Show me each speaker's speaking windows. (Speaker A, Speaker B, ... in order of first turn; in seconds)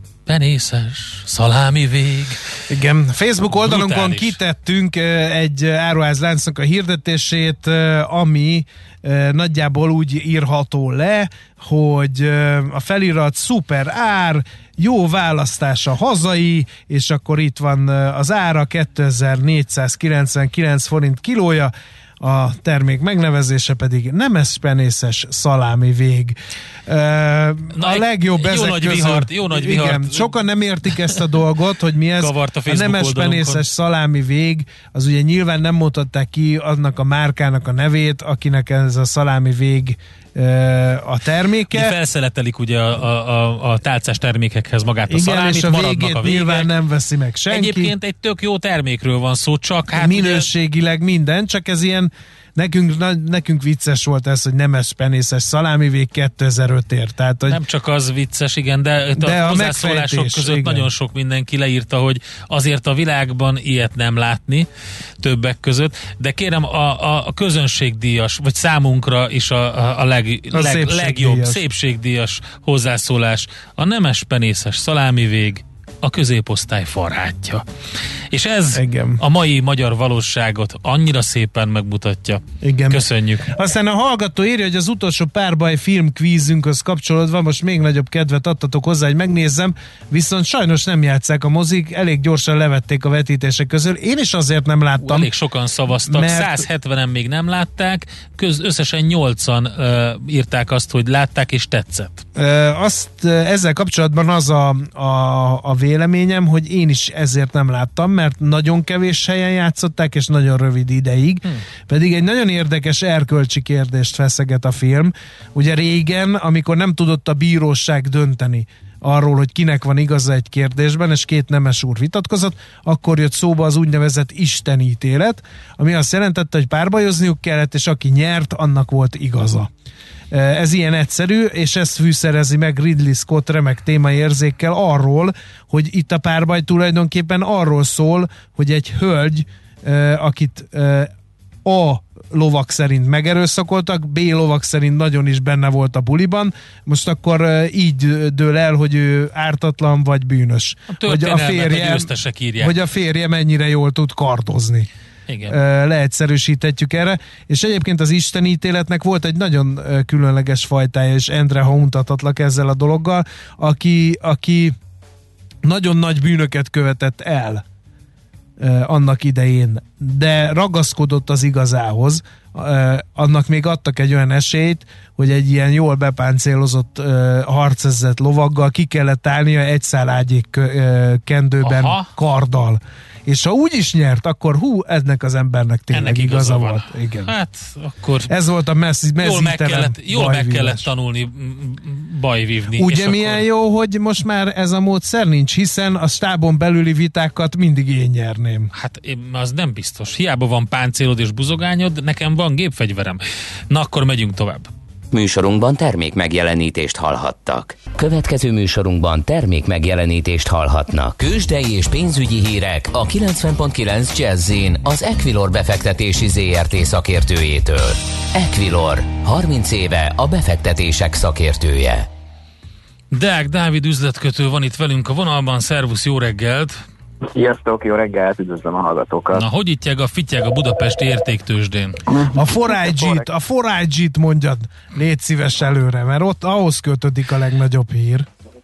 Speaker A: 0.3-2.4, 3.5-4.4, 27.8-30.4, 32.2-33.6, 41.7-46.7, 47.5-50.5, 57.5-64.7, 65.2-77.6, 78.3-83.5, 95.0-102.3, 150.9-152.8, 155.3-155.6, 181.6-182.1, 185.9-188.3, 189.2-193.4, 198.8-204.7, 223.1-226.8, 229.3-232.0
Speaker B: 2.7-26.4, 26.9-41.9, 45.1-47.9, 49.9-57.6, 59.2-60.9, 70.5-71.6, 78.7-79.2, 82.6-95.3, 96.1-96.6, 102.4-129.7, 130.3-141.1, 141.7-152.1, 152.6-154.9, 155.5-164.8, 165.6-167.6, 168.6-187.3, 188.3-190.9, 192.8-198.7, 232.3-238.3
Speaker C: 205.1-222.1
Speaker D: 227.3-229.4, 232.1-233.2